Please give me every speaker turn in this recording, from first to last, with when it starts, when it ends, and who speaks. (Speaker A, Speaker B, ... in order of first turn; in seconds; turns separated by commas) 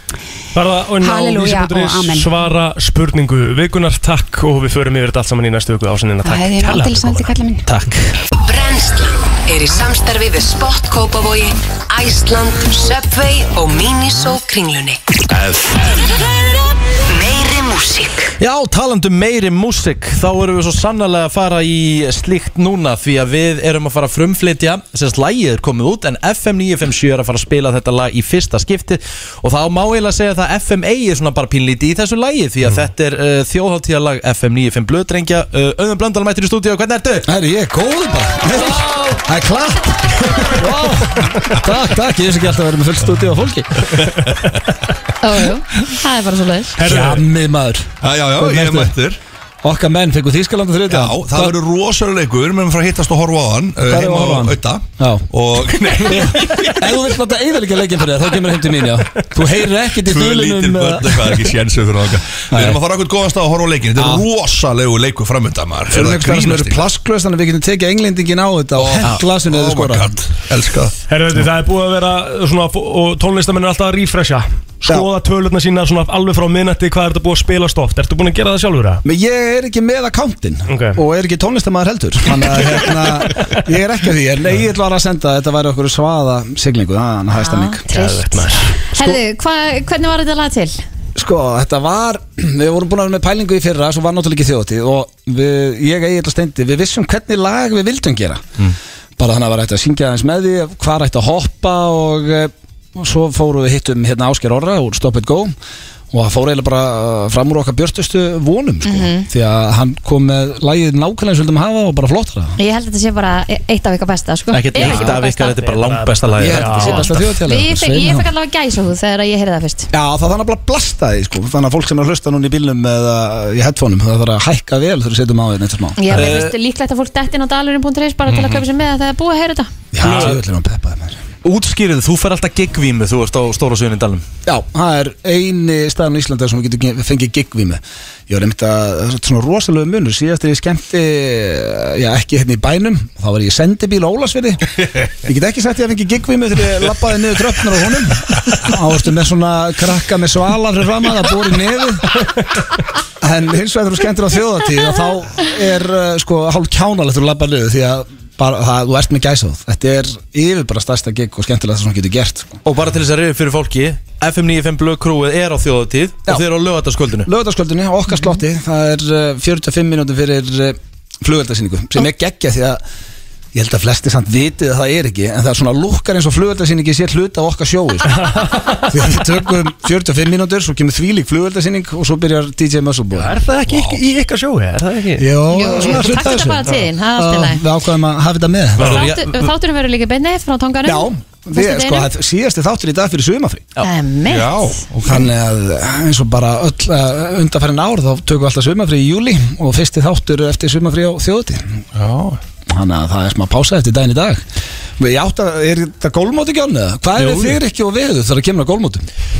Speaker A: 0.5-7.3, Speaker B: 1.0-2.3, Speaker B: 6.2-7.7, Speaker C: 7.7-8.2, Speaker D: 8.4-15.0, Speaker C: 15.3-15.9, Speaker D: 17.1-18.3, Speaker C: 18.4-37.3, Speaker E: 37.2-43.9, Speaker F: 43.9-44.5, Speaker G: 45.2-46.8, Speaker A: 46.8-47.3, Speaker E: 46.8-48.9, Speaker F: 48.0-49.2, Speaker E: 49.6-51.5, Speaker F: 50.9-56.9, Speaker E: 53.9-55.3, Speaker E: 56.0-61.6, Speaker F: 60.0-66.8, Speaker E: 62.5-62.8, Speaker E: 64.0-64.2, Speaker E: 65.9-70.2, Speaker F: 68.8-70.9, Speaker A: 71.1-79.0, Speaker E: 79.0-87.8, Speaker A: 80.7-81.0, Speaker G: 87.4-88.3, Speaker A: 87.9-88.7, Speaker G: 88.8-90.8, Speaker E: 91.2-98.4, Speaker E: 99.2-105.5, Speaker E: 106.1-112.5, Speaker G: 108.8-109.3, Speaker G: 112.6-115.7, Speaker C: 114.5-117.2, Speaker A: 114.8-117.2, Speaker E: 116.4-118.3, Speaker G: 116.8-119.9, Speaker E: 119.9-126.3, Speaker G: 126.0-129.7, Speaker C: 126.1-126.5, Speaker F: 128.3-128.6, Speaker E: 129.9-131.2, Speaker C: 130.0-130.4, Speaker C: 131.4-134.2, Speaker E: 134.4-144.6, Speaker E: 145.2-152.2, Speaker E: 153.2-162.6, Speaker C: 162.6-167.3, Speaker E: 167.2-172.8, Speaker E: 173.5-183.3, Speaker A: 178.2-178.8, Speaker A: 183.1-185.3, Speaker F: 183.7-184.0, Speaker E: 185.2-188.9, Speaker G: 185.5-187.6, Speaker C: 188.8-189.5, Speaker G: 188.8-192.1, Speaker E: 190.8-193.7, Speaker G: 193.8-194.7, Speaker F: 194.2-195.3, Speaker E: 195.1-201.6, Speaker F: 201.9-202.4, Speaker E: 202.7-204.4, Speaker E: 205.0-209.0